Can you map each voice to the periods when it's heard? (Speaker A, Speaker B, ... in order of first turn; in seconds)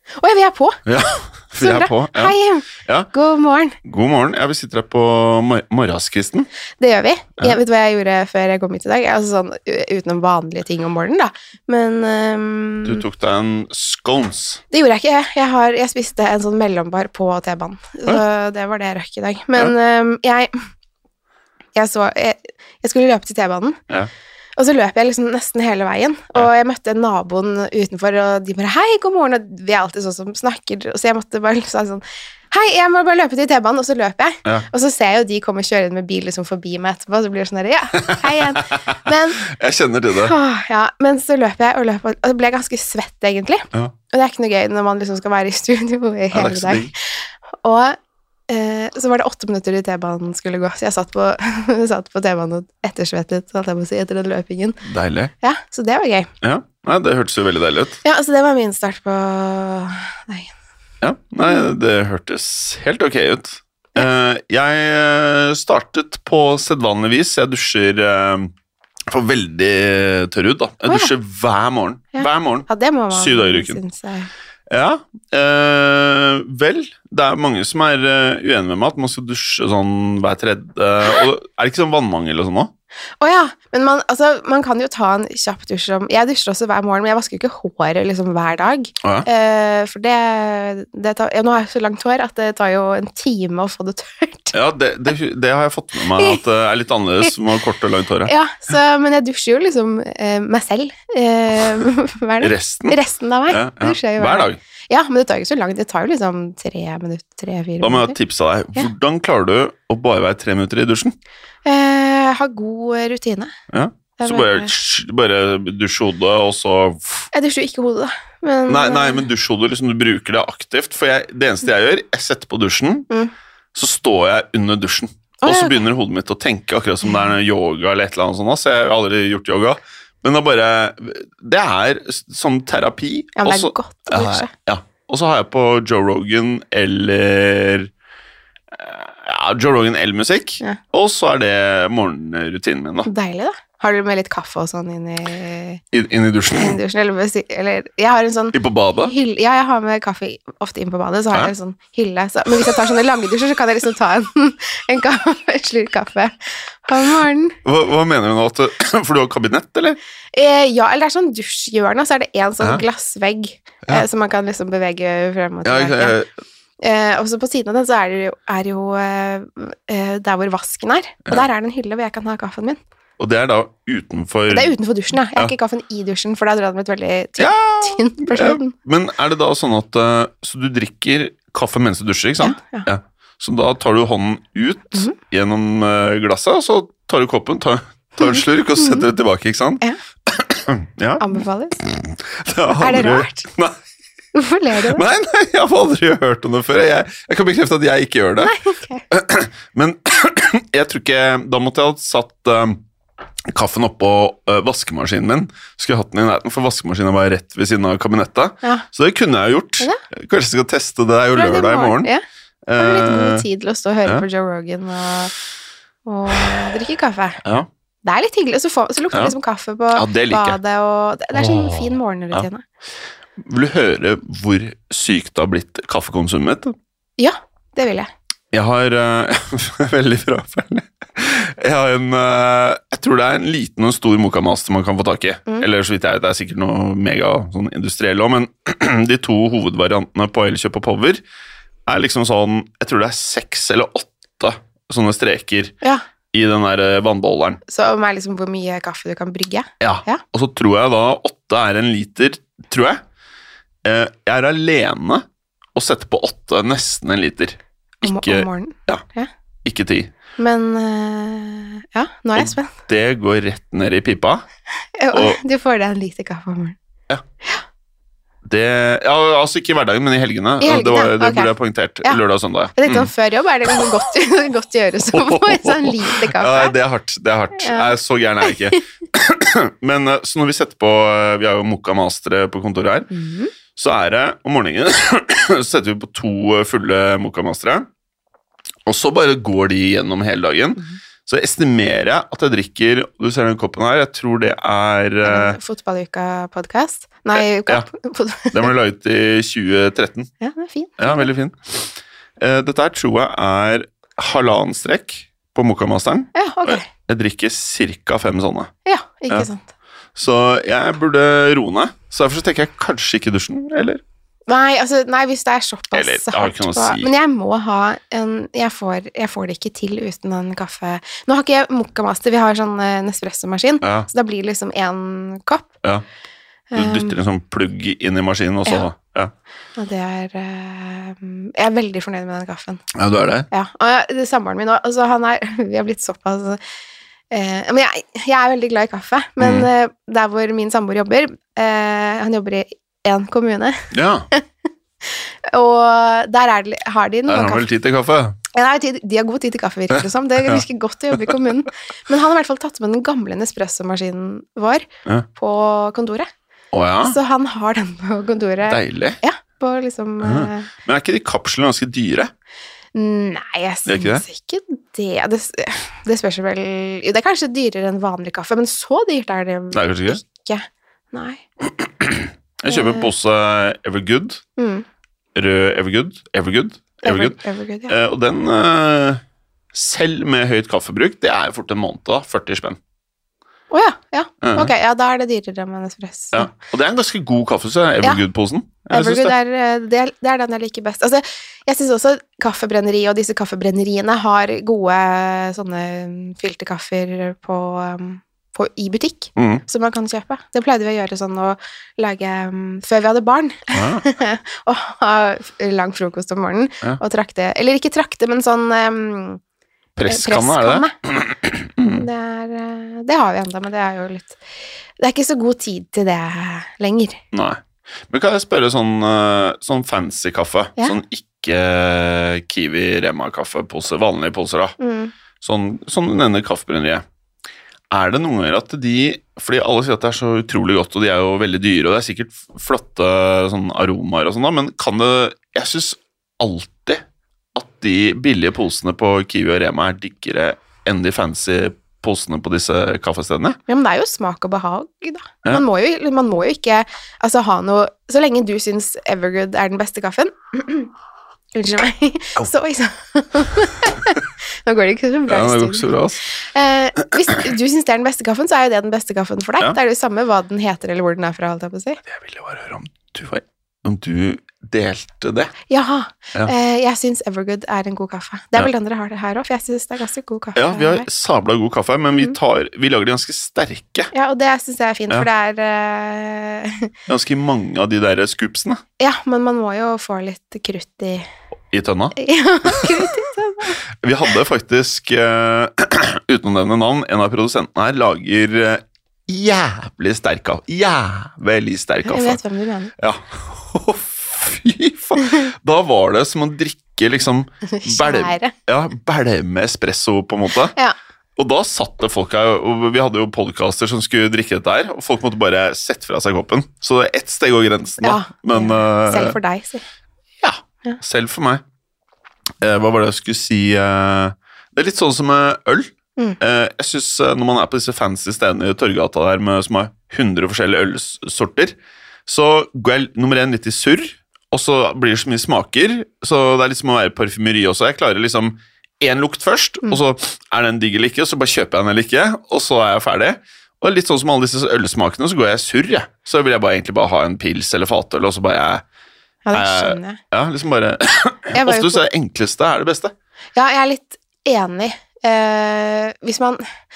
Speaker A: 0.2-0.8, 1.6-3.8, 6.8-13.0, 14.7-20.5, 21.7-23.8, 24.6-39.4, 40.1-48.0, 48.5-54.8, 55.4-56.3, 58.0-60.5, 70.8-71.1, 72.1-74.3, 83.2-94.5, 96.1-96.4, 98.2-108.2, 111.6-113.5, 114.2-114.7, 117.3-119.2, 125.4-125.8, 133.3-134.5, 143.0-145.8, 146.6-157.6, 160.3-166.2, 166.8-172.8, 174.5-178.7, 182.4-182.9, 188.2-189.1, 191.2-191.8, 192.8-193.4, 194.3-195.0, 198.4-199.0, 211.3-212.2, 212.8-215.3, 216.1-217.4, 218.0-222.6, 227.2-228.1, 247.7-250.2, 258.0-259.3, 260.4-262.7, 265.0-266.8, 270.6-271.5, 272.8-276.8, 277.6-278.8, 283.1-283.5, 295.2-298.7, 300.4-301.3, 306.3-306.9, 308.8-309.7, 314.5-325.8, 326.7-327.1, 329.7-332.8, 333.5-336.6, 337.3-344.4, 345.0-347.6, 348.5-356.3, 357.0-360.7, 362.9-371.4, 372.7-373.1, 374.6-374.9, 377.0-377.9, 383.7-386.5, 388.9-409.4, 410.1-410.9, 412.0-414.4, 415.0-417.2, 424.8-425.1, 443.7-450.9, 451.5-462.0, 465.7-471.1, 474.1-476.9, 479.0-481.3, 482.1-483.8, 492.0-492.9, 497.7-498.5, 508.0-509.8, 539.4-540.2, 541.5-542.0, 543.5-546.6
Speaker B: 0.8-3.1, 3.8-6.5, 12.8-14.6, 38.0-40.3, 46.3-46.9, 54.8-55.3, 56.4-58.0, 61.0-68.5, 69.1-73.8, 74.7-82.7, 89.0-89.3, 94.5-98.3, 102.4-103.0, 103.5-104.6, 107.8-111.1, 113.7-117.3, 118.7-123.1, 123.7-137.9, 138.7-143.1, 145.9-146.8, 148.5-149.1, 157.6-160.0, 165.6-166.3, 173.2-174.7, 177.4-193.8, 194.7-198.5, 199.1-202.8, 203.5-212.1, 212.7-213.4, 219.9-220.6, 221.3-222.5, 223.4-226.7, 228.5-241.2, 241.8-245.8, 246.3-247.6, 249.8-253.0, 253.8-259.0, 259.6-260.1, 262.4-264.4, 265.1-265.4, 268.4-273.1, 275.1-283.1, 283.7-287.9, 288.9-295.6, 298.5-300.3, 301.0-308.7, 310.1-314.0, 315.9-317.1, 323.8-324.1, 326.7-329.3, 332.9-333.5, 339.4-339.7, 343.9-344.3, 347.3-348.4, 350.4-351.4, 356.7-357.2, 358.6-359.2, 360.2-362.3, 363.8-364.2, 369.7-370.2, 371.6-374.4, 375.3-379.2, 379.7-382.8, 384.4-384.7, 386.3-389.3, 399.4-399.6, 403.7-404.1, 409.9-412.0, 417.3-424.8, 425.4-427.0, 427.9-437.0, 437.5-443.6, 455.3-456.2, 462.1-465.5, 470.5-474.1, 477.1-478.8, 481.7-483.1, 483.9-492.4, 493.0-500.8, 501.4-509.4, 510.4-511.6, 512.6-538.8, 539.5-543.1